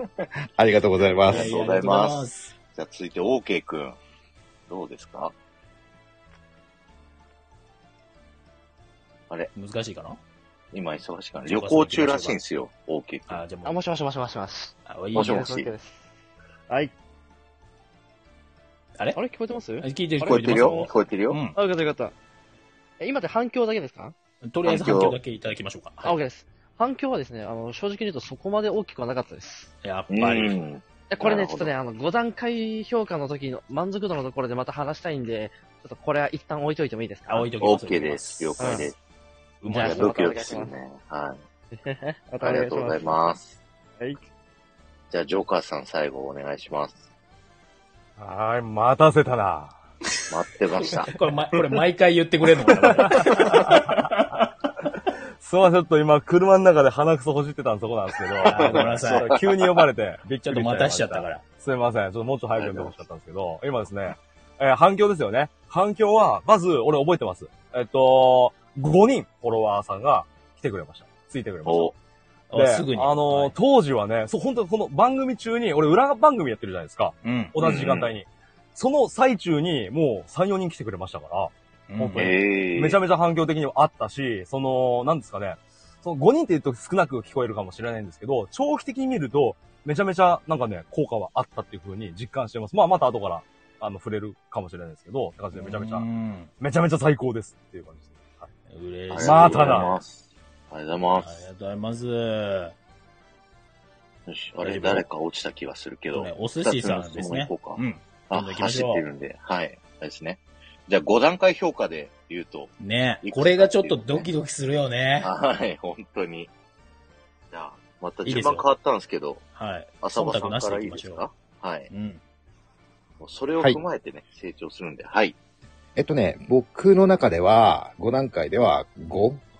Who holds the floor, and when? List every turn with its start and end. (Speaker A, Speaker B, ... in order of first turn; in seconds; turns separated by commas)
Speaker A: 0.6-1.5, Speaker B: 1.2-4.0, Speaker C: 1.3-2.5, Speaker B: 4.7-5.3, Speaker C: 9.5-10.2, Speaker B: 10.7-13.4, Speaker C: 11.4-12.4, Speaker C: 13.3-13.8, Speaker D: 13.6-16.1, Speaker C: 14.8-15.5, Speaker B: 15.1-15.7, Speaker D: 19.1-20.9, Speaker C: 19.8-21.6, Speaker B: 20.2-21.4, Speaker D: 21.5-22.1, Speaker D: 23.0-24.1, Speaker C: 24.4-26.1, Speaker B: 24.6-25.1, Speaker D: 26.0-29.7, Speaker C: 29.8-30.6, Speaker B: 30.1-31.7, Speaker D: 31.1-37.5, Speaker C: 37.3-38.9, Speaker B: 37.6-39.0, Speaker D: 38.6-38.9, Speaker C: 39.6-40.2, Speaker D: 39.6-40.7, Speaker B: 39.7-41.4, Speaker D: 41.7-43.3, Speaker B: 42.4-43.5, Speaker B: 45.1-47.0, Speaker E: 48.2-49.8, Speaker B: 50.3-51.1, Speaker C: 51.1-54.5, Speaker E: 53.1-53.7, Speaker E: 55.4-71.9, Speaker C: 58.4-59.3, Speaker B: 58.6-59.8, Speaker C: 60.4-61.4, Speaker B: 62.6-62.9, Speaker B: 71.6-71.9, Speaker C: 72.5-73.5, Speaker E: 72.5-96.1, Speaker C: 77.2-77.5, Speaker B: 77.6-78.1, Speaker C: 81.9-82.3, Speaker B: 82.2-83.0, Speaker C: 95.5-96.5, Speaker E: 96.6-98.5, Speaker C: 98.7-100.0, Speaker B: 99.1-101.5, Speaker E: 99.2-100.0, Speaker C: 101.2-102.7, Speaker B: 104.3-114.2, Speaker C: 104.6-105.0, Speaker C: 106.1-109.0, Speaker C: 112.8-115.3, Speaker B: 115.2-116.5, Speaker B: 117.5-119.4, Speaker C: 118.2-118.6, Speaker C: 119.5-121.2, Speaker B: 120.0-121.9, Speaker C: 121.9-122.2, Speaker B: 123.2-125.3, Speaker A: 126.0-129.4